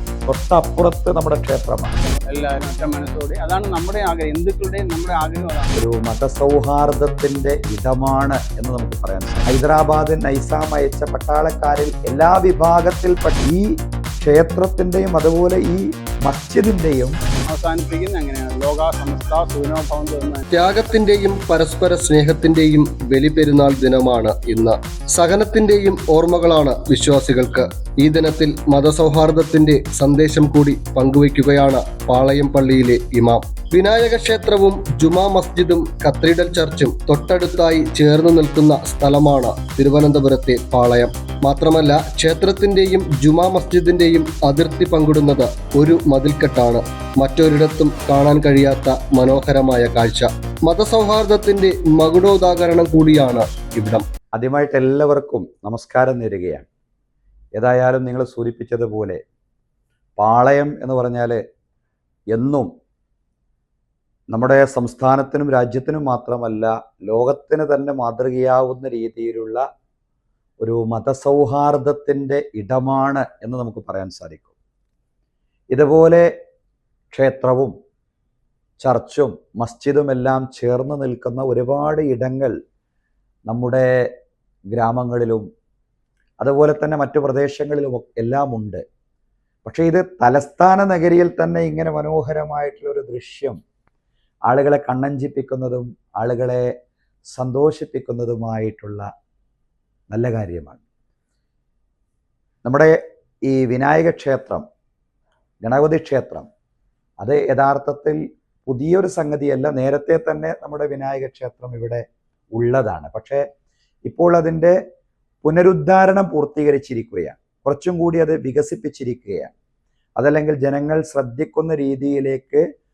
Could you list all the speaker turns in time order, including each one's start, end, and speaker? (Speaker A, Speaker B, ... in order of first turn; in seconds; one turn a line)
Speaker A: 0.3-2.0
Speaker B: 2.3-5.7
Speaker A: 5.8-13.7
Speaker A: 14.2-17.1
Speaker B: 17.5-20.4
Speaker C: 20.5-54.0
Speaker A: 54.3-56.7
Speaker A: 57.5-59.2
Speaker A: 60.2-61.4
Speaker A: 62.3-62.7
Speaker A: 64.3-69.6
Speaker A: 70.6-74.5
Speaker A: 75.7-76.3
Speaker A: 77.1-77.7
Speaker A: 78.8-82.6
Speaker A: 83.5-84.1
Speaker A: 84.7-85.5
Speaker A: 86.4-88.8
Speaker A: 89.6-93.6
Speaker A: 94.5-96.7
Speaker A: 97.3-99.1
Speaker A: 100.1-100.8
Speaker A: 102.6-103.0
Speaker A: 103.5-104.6
Speaker A: 105.6-106.5
Speaker A: 107.2-112.0
Speaker A: 112.6-113.4
Speaker A: 114.1-114.8
Speaker A: 115.4-119.5
Speaker A: 120.2-122.6